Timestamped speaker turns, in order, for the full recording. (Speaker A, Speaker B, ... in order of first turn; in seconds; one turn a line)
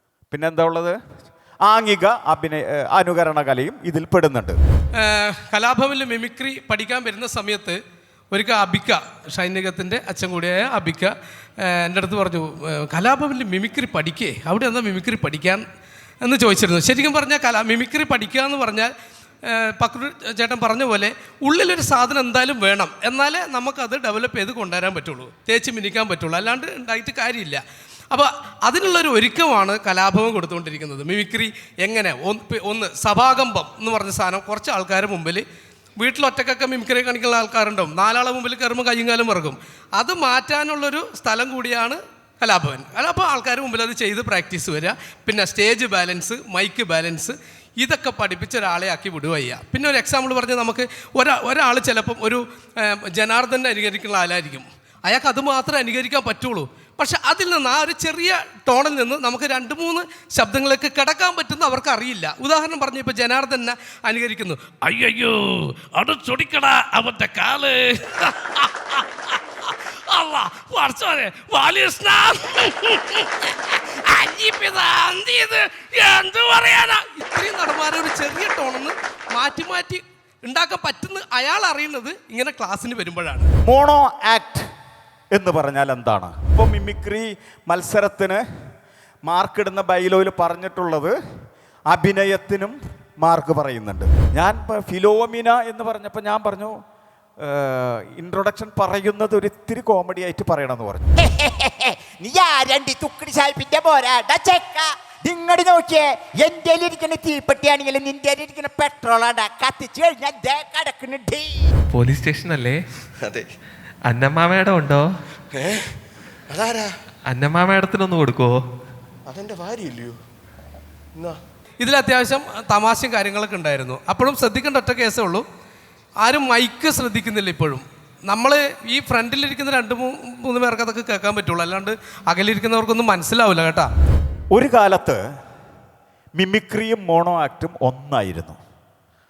Speaker A: 0.3-0.9
Speaker A: 1.6-4.6
Speaker B: 5.0-7.8
Speaker B: 8.3-11.1
Speaker B: 11.8-15.6
Speaker B: 16.2-18.9
Speaker B: 19.6-35.4
Speaker B: 36.0-52.4
Speaker B: 53.1-65.3
Speaker B: 66.0-68.5
Speaker B: 70.1-73.2
Speaker B: 74.1-83.5
Speaker A: 83.6-84.7
Speaker A: 85.3-88.4
Speaker A: 89.3-91.1
Speaker A: 91.9-96.7
Speaker A: 97.4-101.1
Speaker C: 101.3-111.5
Speaker D: 111.9-112.8
Speaker E: 113.2-113.5
Speaker D: 114.0-115.0
Speaker E: 115.5-115.8
Speaker E: 116.5-116.9
Speaker D: 117.3-118.6
Speaker E: 119.3-120.2
Speaker B: 121.8-125.4
Speaker B: 126.2-133.9
Speaker A: 134.5-135.2
Speaker A: 136.4-138.6